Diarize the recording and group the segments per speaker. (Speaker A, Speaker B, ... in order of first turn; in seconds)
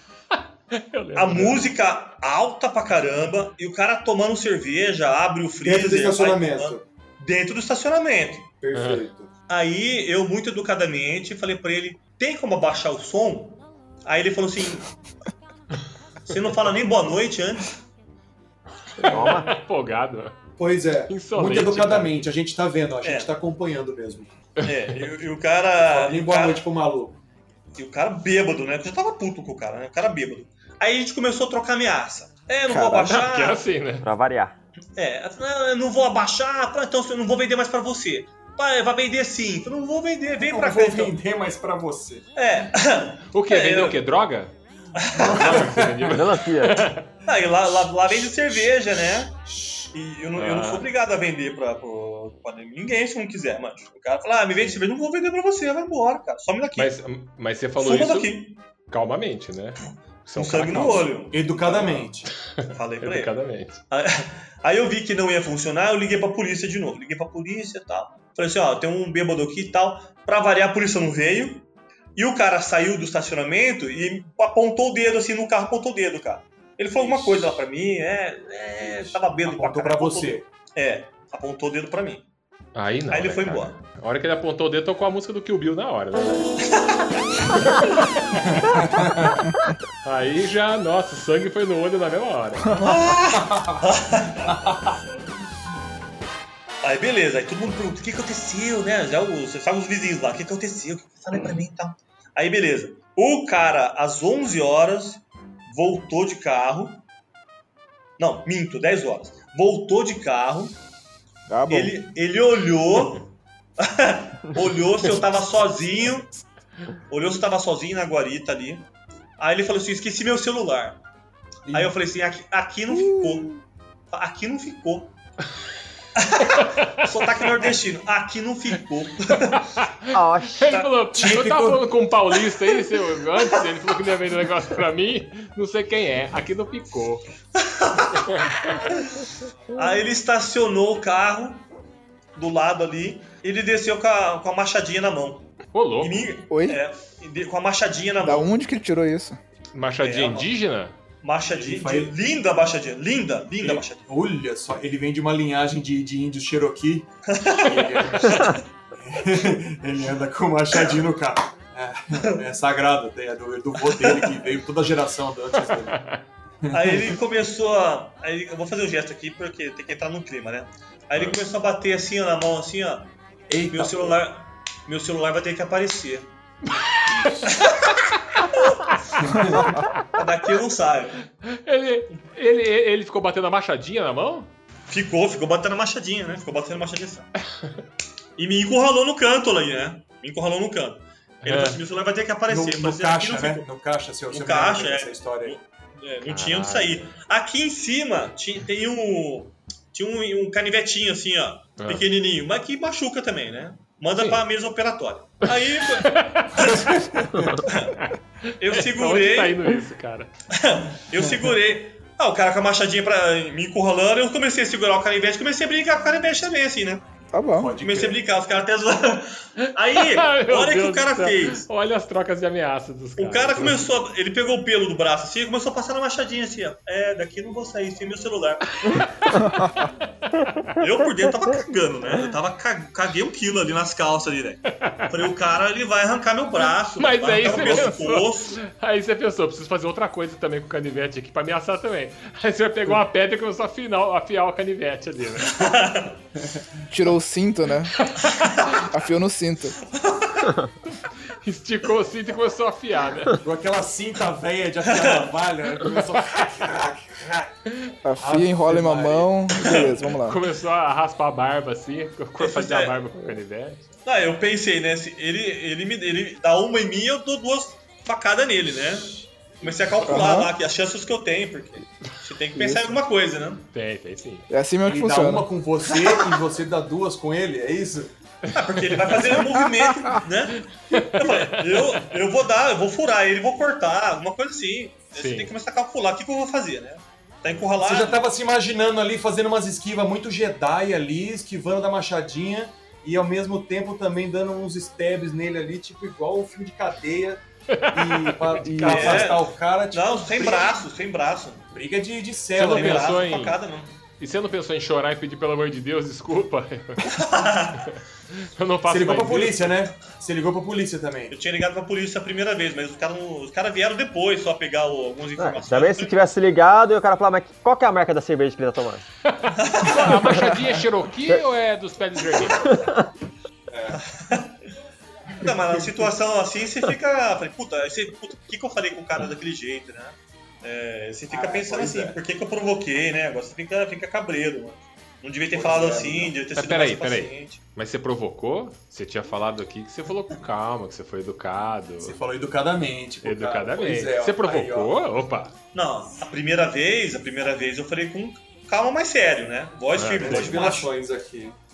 Speaker A: 0.7-1.6, 8.7-9.1, 19.0-20.3, 21.1-22.3, 33.0-34.0, 43.3-44.5, 45.2-47.0, 50.4-50.9, 56.8-58.3, 58.9-61.1, 63.0-63.8, 82.7-86.6, 90.0-92.7, 126.5-127.0, 129.3-137.2, 138.3-138.9, 145.7-146.2, 149.7-150.9, 165.9-166.2, 181.5-184.5, 191.4-191.8, 196.2-197.1, 205.9-206.7, 208.7-210.3, 219.6-223.8, 228.8-229.5, 237.0-245.7, 248.0-248.7, 250.9-253.4, 260.2-263.8, 273.7-274.5, 280.9-281.6, 285.1-285.5, 297.7-299.3, 302.6-303.6, 304.2-307.0, 307.9-309.8, 319.3-322.7, 336.5-342.1, 343.2-345.5, 349.9-350.6
Speaker B: 1.1-8.5, 9.5-14.9, 16.2-17.8, 23.0-23.3, 24.6-26.6, 27.7-33.6, 35.0-41.1, 42.4-44.0, 45.0-45.4, 47.2-49.3, 49.9-57.0, 57.8-58.6, 60.3-62.1, 62.6-63.3, 63.9-82.3, 83.1-83.8, 92.8-94.6, 96.8-107.0, 108.2-110.7, 111.7-113.3, 113.8-116.3, 117.1-118.9, 119.4-121.0, 121.7-123.5, 124.1-125.1, 126.2-129.6, 137.6-138.2, 139.7-141.6, 142.3-145.5, 146.0-148.5, 150.0-150.5, 151.2-154.0, 157.3-158.6, 163.9-164.3, 166.7-173.1, 173.7-176.3, 177.6-177.9, 180.1-181.1, 184.9-187.3, 188.4-193.7, 194.3-207.0, 208.6-209.8, 210.5-217.0, 217.8-221.7, 223.2-228.9, 230.8-238.6, 245.5-246.2, 249.9-250.5, 254.9-255.3, 262.4-263.0, 264.0-273.7, 278.5-288.2, 298.9-301.7, 302.6-303.9, 307.1-307.8, 311.3-316.2, 319.6-320.1, 323.9-324.6, 325.4-337.6, 345.7-350.9
Speaker C: 5.6-6.8, 8.6-9.3, 20.6-24.4, 25.9-27.1, 40.4-42.2, 45.1-46.1, 49.3-49.9, 61.3-62.3, 77.0-77.6, 78.8-80.4, 88.5-89.4, 93.4-93.8, 121.7-121.9, 131.1-131.8, 151.5-152.1, 153.6-157.1, 157.6-166.0, 166.6-167.2, 173.5-174.2, 177.2-177.5, 179.2-179.8, 192.5-195.6, 206.7-207.6, 217.6-218.2, 237.4-237.9, 253.4-257.5, 258.2-259.5, 274.8-278.1, 287.8-297.4, 297.9-300.8, 301.7-303.2, 308.9-311.3, 323.7-324.0, 325.4-326.0, 331.3-332.2, 335.5-336.3, 342.0-344.9, 350.1-351.6
Speaker D: 19.1-19.5, 34.0-34.5, 46.1-46.9, 130.1-130.8, 315.4-319.1, 322.6-323.1
Speaker E: 32.6-33.2, 111.5-112.0, 122.9-123.5, 146.5-146.8, 148.2-149.4, 217.3-217.7, 246.9-247.9, 248.9-249.8, 258.0-260.4, 270.0-270.5, 272.5-273.0, 274.5-275.5, 279.4-279.9, 298.6-299.2